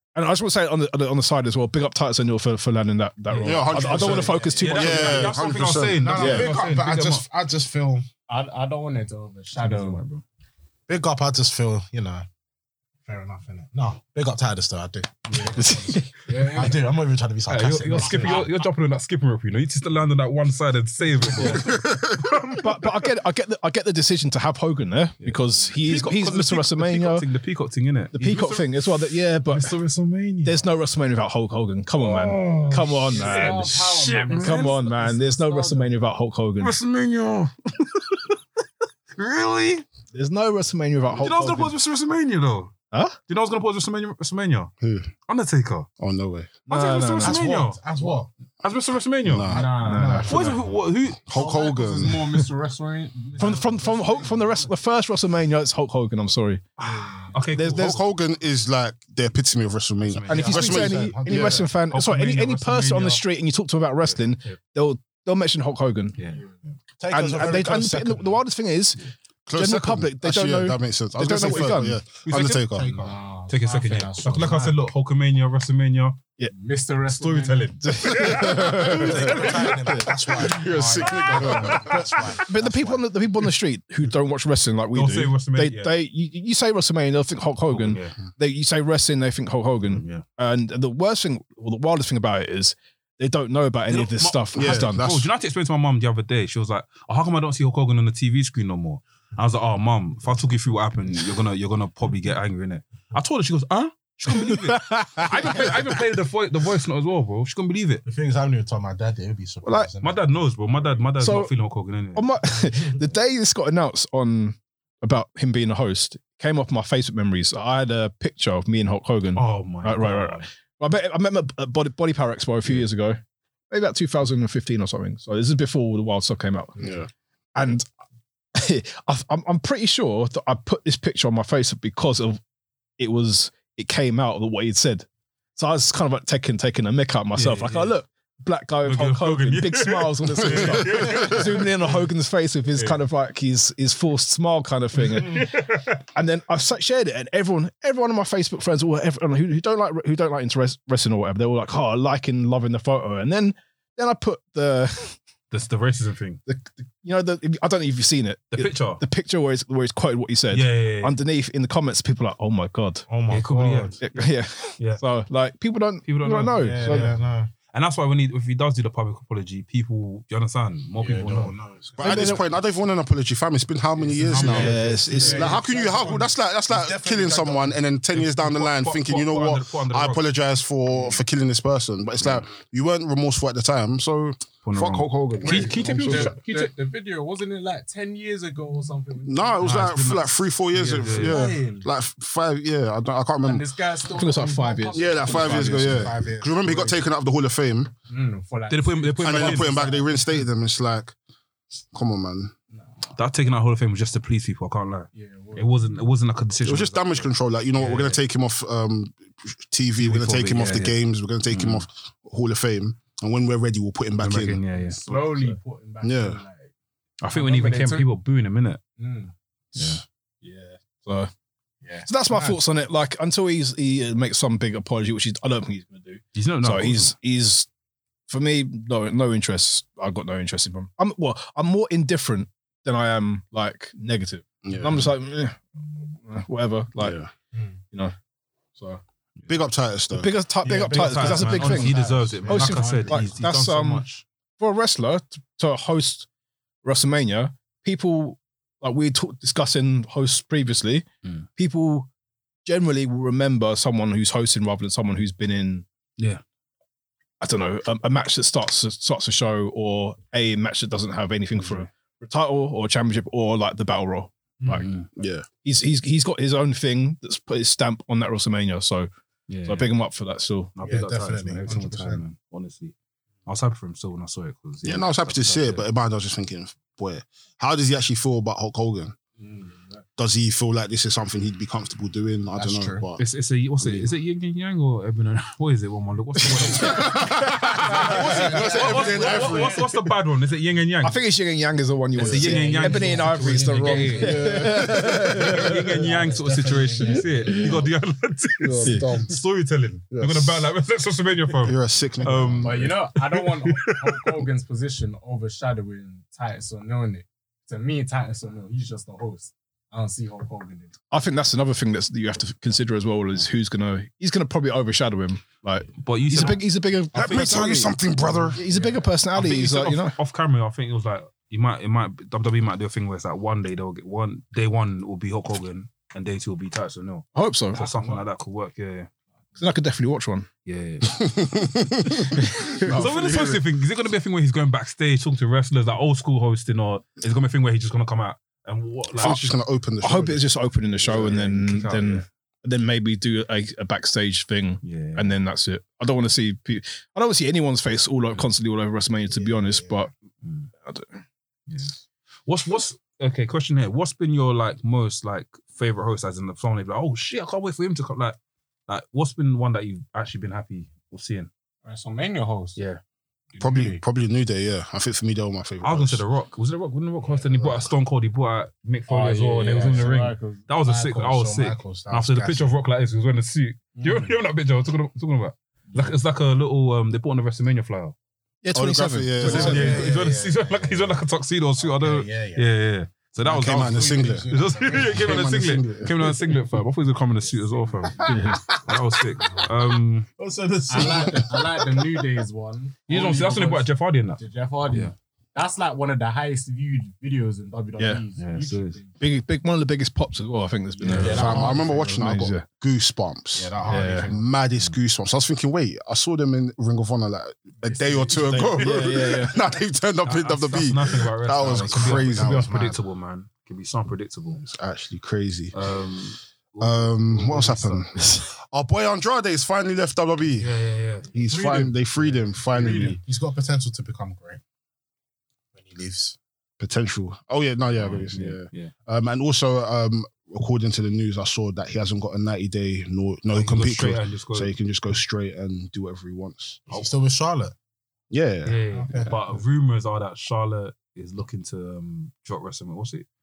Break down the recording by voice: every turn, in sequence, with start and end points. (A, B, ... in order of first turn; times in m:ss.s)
0:00.2-0:05.3 A
0:03.3-0:07.2 B
0:03.4-0:06.2 C
0:03.9-0:04.2 D
0:04.2-0:04.8 E
0:06.0-0:08.1 D
0:06.2-0:06.5 A
0:08.3-0:10.0 E
0:09.6-0:10.2 B
0:10.9-0:12.2 D
0:13.0-0:18.5 D
0:15.3-0:16.9 E
0:15.6-0:16.1 A
0:17.5-0:22.7 B
0:17.9-0:18.5 E
0:21.5-0:22.5 C
0:22.5-0:27.3 A
0:25.2-0:28.8 B
0:28.1-0:29.7 A
0:29.5-0:30.6 B
0:30.4-0:36.8 A
0:32.0-0:34.8 B
0:32.5-0:35.9 E
0:36.6-0:38.4 B
0:39.2-0:39.8 B
0:40.1-0:41.8 A
0:41.2-0:42.7 B
0:42.9-0:43.2 A
0:43.3-0:44.7 B
0:44.8-0:45.1 C
0:45.3-0:45.9 B
0:46.0-0:46.5 C
0:46.7-0:47.4 A
0:46.7-0:47.8 B
0:47.2-0:48.3 D
0:48.6-0:49.6 B
0:49.2-0:50.2 C
0:49.5-0:50.3 E
0:49.8-0:50.7 D
0:49.8-0:50.6 A
0:50.3-0:51.5 B
0:51.3-0:52.2 C
0:51.3-0:54.7 E
0:53.4-0:56.6 A
0:56.8-0:57.9 B
0:56.8-0:57.4 E
0:57.5-0:58.0 A
0:57.7-1:01.7 C
1:00.0-1:00.9 B
1:00.3-1:06.2 A
1:00.3-1:01.7 D
1:01.9-1:03.2 B
1:06.2-1:06.4 B
1:07.0-1:08.4 D
1:07.1-1:09.0 A
1:09.5-1:13.0 C
1:09.5-1:12.0 A
1:12.3-1:12.6 B
1:12.6-1:13.2 D
1:13.0-1:14.8 E
1:13.5-1:16.2 B
1:16.5-1:18.1 E
1:17.1-1:19.8 B
1:17.8-1:20.1 A
1:18.6-1:23.1 D
1:20.6-1:22.0 B
1:20.6-1:21.9 E
1:20.7-1:21.9 C
1:21.4-1:35.1 A
1:24.9-1:25.9 B
1:27.7-1:28.1 B
1:29.9-1:30.2 B
1:33.9-1:48.0 B
1:34.6-1:35.3 C
1:44.3-1:45.9 A
1:48.1-1:50.2 D
1:49.6-1:49.9 A
1:50.0-1:52.3 B
1:51.2-1:51.5 A
1:52.2-2:06.8 A
1:59.4-2:00.5 B
2:06.8-2:07.1 C
2:07.6-2:07.9 A
2:08.6-2:12.4 A
2:13.0-2:25.6 A
2:17.4-2:17.9 B
2:18.8-2:22.0 B
2:25.0-2:26.0 B
2:26.1-2:35.2 A
2:35.5-2:36.4 B
2:36.5-2:43.1 A
2:38.5-2:39.0 B
2:40.5-2:41.2 B
2:43.1-2:44.0 D
2:43.3-2:44.2 B
2:44.0-2:47.1 A
2:46.1-2:47.2 B
2:46.6-2:47.5 D
2:47.7-2:51.6 B
2:51.0-2:52.3 D
2:52.0-3:06.4 C
2:52.0-2:52.4 A
2:54.2-2:55.5 B
2:54.3-2:57.8 D
2:54.4-2:56.3 E
2:54.4-2:55.6 A
2:58.1-3:00.2 B
3:04.6-3:06.7 B
3:05.4-3:09.9 E
3:09.3-3:13.7 C
3:09.6-3:11.5 B
3:11.1-3:11.9 E
3:13.4-3:17.0 E
3:14.1-3:16.1 A
3:14.9-3:17.9 C
3:18.1-3:20.2 E
3:18.7-3:19.9 B
3:19.2-3:21.1 C
3:21.9-3:22.5 C
3:23.1-3:28.2 B
3:25.1-3:25.7 E
3:26.6-3:34.6 C
3:30.0-3:31.0 B
3:31.5-3:31.8 B
3:34.2-3:35.5 B
3:34.7-3:36.7 E
3:36.0-3:36.4 C
3:37.2-3:38.8 B
3:37.3-3:38.1 E
3:39.0-3:39.3 E
3:39.8-3:40.0 B
3:40.4-3:41.3 A
3:42.1-3:47.7 A
3:46.4-3:47.1 B
3:48.3-3:57.2 A
3:54.6-3:55.1 C
3:57.0-3:57.3 C
3:59.5-4:00.3 C
4:00.1-4:04.1 A
4:00.6-4:03.4 D
4:00.6-4:04.2 B
4:01.8-4:02.5 E
4:04.6-4:06.3 A
4:06.8-4:12.1 A
4:12.6-4:15.9 A
4:17.4-4:24.9 A
4:24.7-4:25.1 B
4:25.2-4:25.5 C
4:25.6-4:29.1 A
4:29.5-4:29.9 B
4:29.6-4:30.7 A
4:30.8-4:32.9 B
4:30.8-4:32.2 D
4:33.5-4:35.8 B
4:34.8-4:39.2 C
4:39.4-4:40.0 E
4:40.2-4:43.2 C
4:42.6-4:43.0 D
4:43.2-4:51.2 B
4:46.6-4:49.9 C
4:46.8-4:48.2 A
4:47.8-4:49.9 E
4:51.0-4:55.8 A
4:52.2-5:04.4 B
4:52.2-4:57.8 E
4:54.2-4:55.5 C
4:58.6-4:59.3 C
4:58.8-4:59.2 E
5:00.1-5:00.6 C
5:01.6-5:02.9 C
5:02.6-5:11.0 E
5:11.1-5:18.0 A
5:16.0-5:16.6 B
5:17.1-5:18.6 C
5:17.2-5:17.6 B
5:18.5-5:20.2 A
5:18.6-5:19.1 E
5:19.3-5:29.1 B
5:27.4-5:27.8 A
5:27.8-5:28.2 D
5:29.6-5:30.5 A
5:30.7-5:31.3 B
5:31.2-5:33.6 C
5:32.4-5:32.9 A
5:32.7-5:39.4 B
5:39.2-5:40.6 C
5:39.2-5:39.5 A
5:40.0-5:50.1 A
5:41.0-5:42.2 B
5:44.8-5:45.3 B
5:50.4-5:50.7 B
5:50.8-5:51.2 A
5:52.5-5:58.4 B
5:58.9-6:01.5 B
6:01.8-6:02.8 E
6:02.8-6:03.0 B
6:03.6-6:06.2 C
6:05.8-6:18.2 B
6:09.1-6:11.3 E
6:11.1-6:12.8 D
6:14.0-6:14.3 E
6:18.6-6:20.0 A
6:18.7-6:20.1 C
6:19.4-6:30.3 B
6:19.4-6:21.2 D
6:21.8-6:22.7 D
6:23.4-6:26.4 C
6:23.6-6:25.7 D
6:24.9-6:25.2 E
6:28.3-6:28.6 A
6:30.4-6:32.2 D
6:30.9-6:39.2 E
6:33.1-6:35.1 B
6:38.0-6:38.2 A
6:38.4-6:39.0 B
6:39.2-6:42.7 A
6:41.0-6:41.9 D
6:41.1-6:52.7 C
6:41.1-6:41.6 E
6:43.5-6:44.4 D
6:43.9-6:44.3 A
6:47.8-6:48.5 E
6:48.4-6:48.9 B
6:48.7-6:49.6 A
6:50.2-6:54.6 B
6:51.6-6:53.0 D
6:54.6-6:55.8 C
6:55.7-6:58.4 B
6:56.8-7:00.7 C
7:00.6-7:01.3 B
7:01.3-7:03.2 C
7:01.5-7:02.0 D
7:01.6-7:01.8 E
7:02.6-7:04.6 D
7:02.8-7:03.1 E
7:05.8-7:06.4 D
7:06.8-7:17.1 C
7:08.0-7:08.9 B
7:13.5-7:14.7 B
7:16.9-7:17.8 D
7:18.3-7:18.8 C
7:18.6-7:23.3 B
7:18.9-7:19.4 D